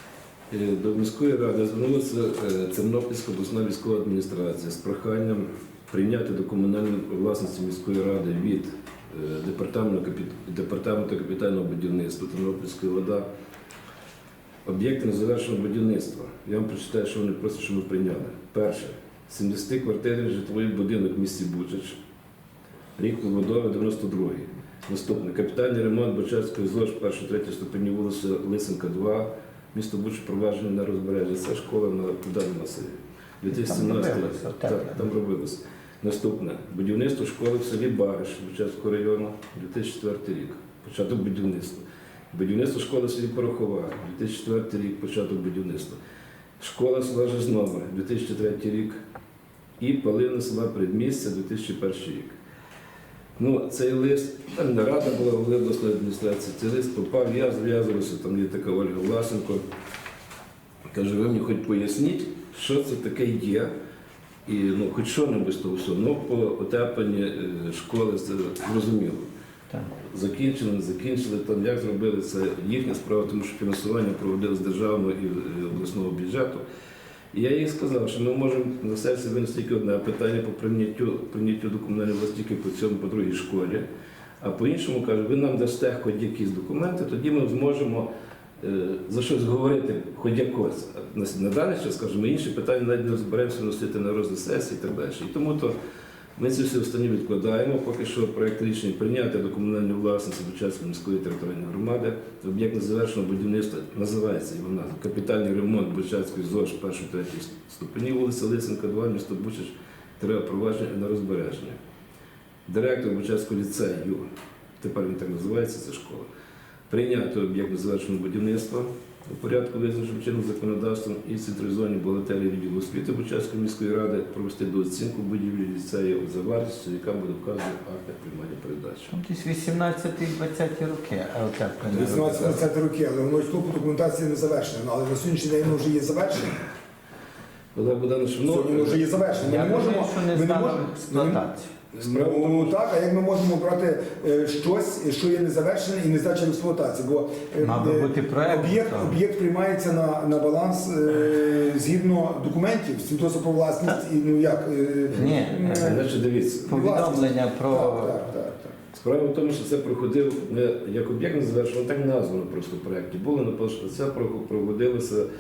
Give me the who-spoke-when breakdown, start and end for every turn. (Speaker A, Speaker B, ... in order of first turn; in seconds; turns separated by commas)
Speaker A: 0.5-13.2, Speaker A: 14.7-22.0, Speaker A: 23.0-46.0, Speaker B: 33.5-35.0, Speaker A: 46.6-49.0, Speaker A: 49.8-52.4, Speaker A: 53.4-59.6, Speaker A: 60.9-63.7, Speaker A: 64.5-69.2, Speaker A: 70.0-76.6, Speaker A: 77.3-83.8, Speaker A: 84.4-88.1, Speaker A: 88.6-95.8, Speaker A: 96.4-111.8, Speaker A: 112.7-114.2, Speaker A: 114.8-116.3, Speaker A: 116.9-129.1, Speaker B: 129.1-132.6, Speaker C: 131.9-136.6, Speaker A: 131.9-132.6, Speaker A: 137.7-139.3, Speaker C: 138.4-156.1, Speaker B: 139.4-141.7, Speaker A: 141.9-142.8, Speaker B: 147.6-149.2, Speaker B: 155.1-156.0, Speaker A: 155.1-156.7, Speaker B: 156.7-158.2, Speaker C: 156.7-158.8, Speaker A: 158.9-165.3